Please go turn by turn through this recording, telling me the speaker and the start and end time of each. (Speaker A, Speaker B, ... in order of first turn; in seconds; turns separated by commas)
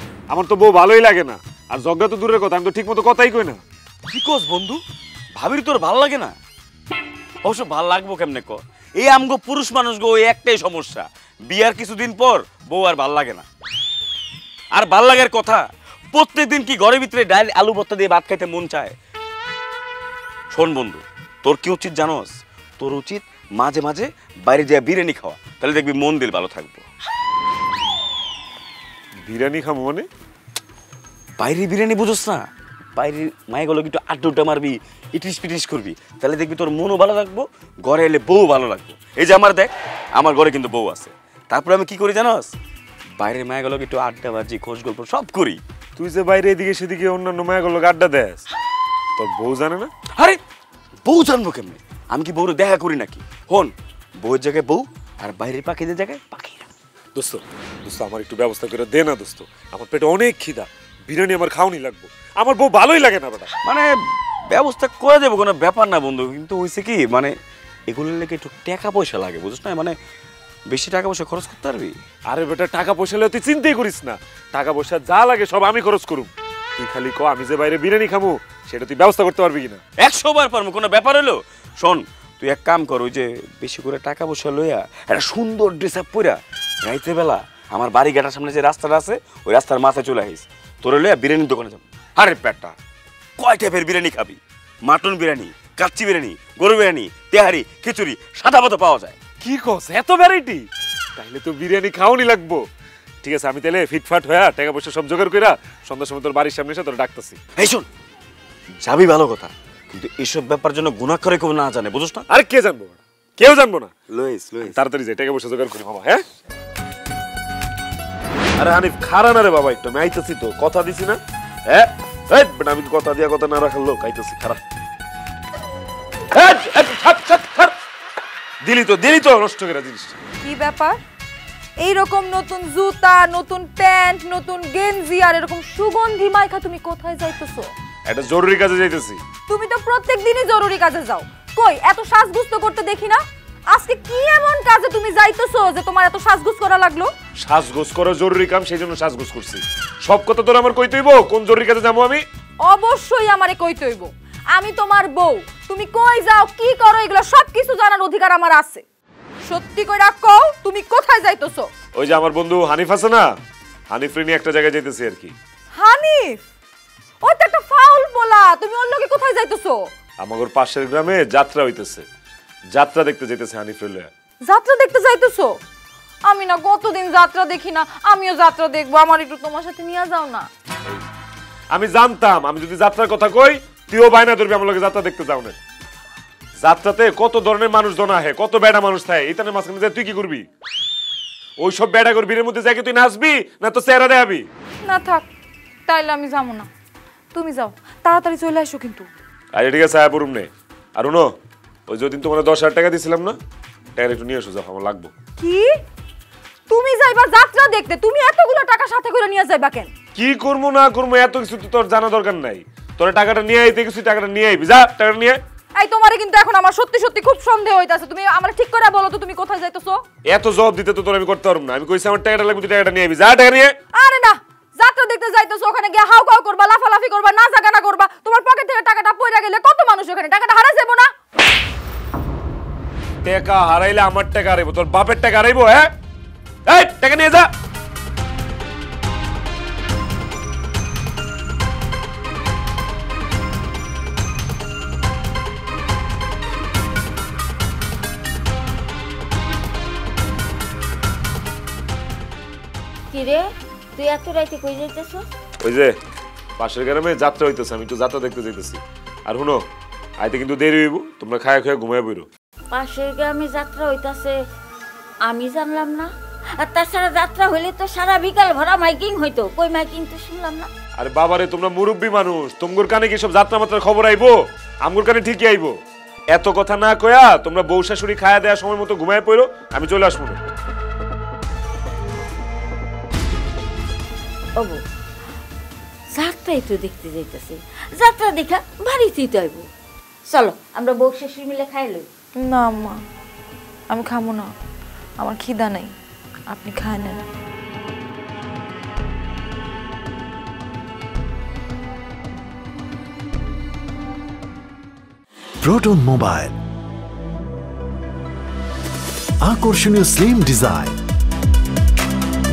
Speaker A: 0.3-3.6, Speaker B: 4.1-4.8, Speaker B: 5.4-6.3, Speaker B: 7.4-13.4, Speaker B: 14.8-19.0, Speaker B: 20.5-26.9, Speaker A: 29.2-30.1, Speaker B: 31.4-32.5, Speaker B: 33.0-42.5, Speaker B: 43.2-45.6, Speaker A: 46.0-48.4, Speaker A: 49.2-49.9, Speaker B: 51.0-56.7, Speaker A: 57.1-63.5, Speaker B: 64.5-67.3, Speaker B: 67.9-70.0, Speaker B: 70.7-72.0, Speaker A: 72.3-79.8, Speaker B: 80.0-92.8, Speaker B: 93.4-99.2, Speaker A: 99.4-102.7, Speaker A: 103.2-107.4, Speaker B: 107.6-107.9, Speaker B: 108.8-112.3, Speaker A: 112.3-113.9, Speaker B: 114.1-114.8, Speaker A: 114.6-116.2, Speaker A: 118.6-124.6, Speaker A: 126.3-127.7, Speaker A: 128.6-130.2, Speaker C: 130.4-131.0, Speaker C: 131.8-137.7, Speaker A: 138.1-139.2, Speaker C: 139.5-147.1, Speaker A: 147.4-152.2, Speaker C: 152.6-158.8, Speaker C: 159.4-161.7, Speaker A: 161.9-163.3, Speaker A: 163.9-165.3, Speaker C: 165.8-166.4, Speaker C: 167.2-169.9, Speaker A: 170.2-172.1, Speaker A: 172.7-174.1, Speaker C: 174.4-175.6, Speaker C: 176.3-180.5, Speaker A: 181.7-185.6, Speaker A: 186.6-190.4, Speaker A: 191.6-194.5, Speaker C: 194.8-195.3, Speaker C: 195.9-196.7, Speaker C: 197.3-199.1, Speaker A: 199.6-201.3, Speaker A: 201.9-203.4, Speaker A: 204.0-205.1, Speaker C: 205.4-205.7, Speaker C: 206.7-209.9, Speaker A: 210.2-215.4, Speaker C: 215.8-220.0, Speaker A: 220.3-223.8, Speaker C: 223.9-231.1, Speaker A: 233.2-235.9, Speaker A: 236.7-237.5, Speaker D: 253.1-255.2, Speaker A: 255.6-255.9, Speaker A: 256.6-259.6, Speaker A: 260.2-262.3, Speaker D: 262.7-264.3, Speaker D: 265.3-270.7, Speaker A: 271.0-275.7, Speaker A: 276.3-280.4, Speaker D: 286.1-289.7, Speaker D: 290.3-292.1, Speaker C: 292.4-293.0, Speaker C: 293.9-294.5, Speaker C: 295.2-295.9, Speaker C: 296.5-297.2, Speaker E: 305.6-306.6, Speaker E: 309.4-311.0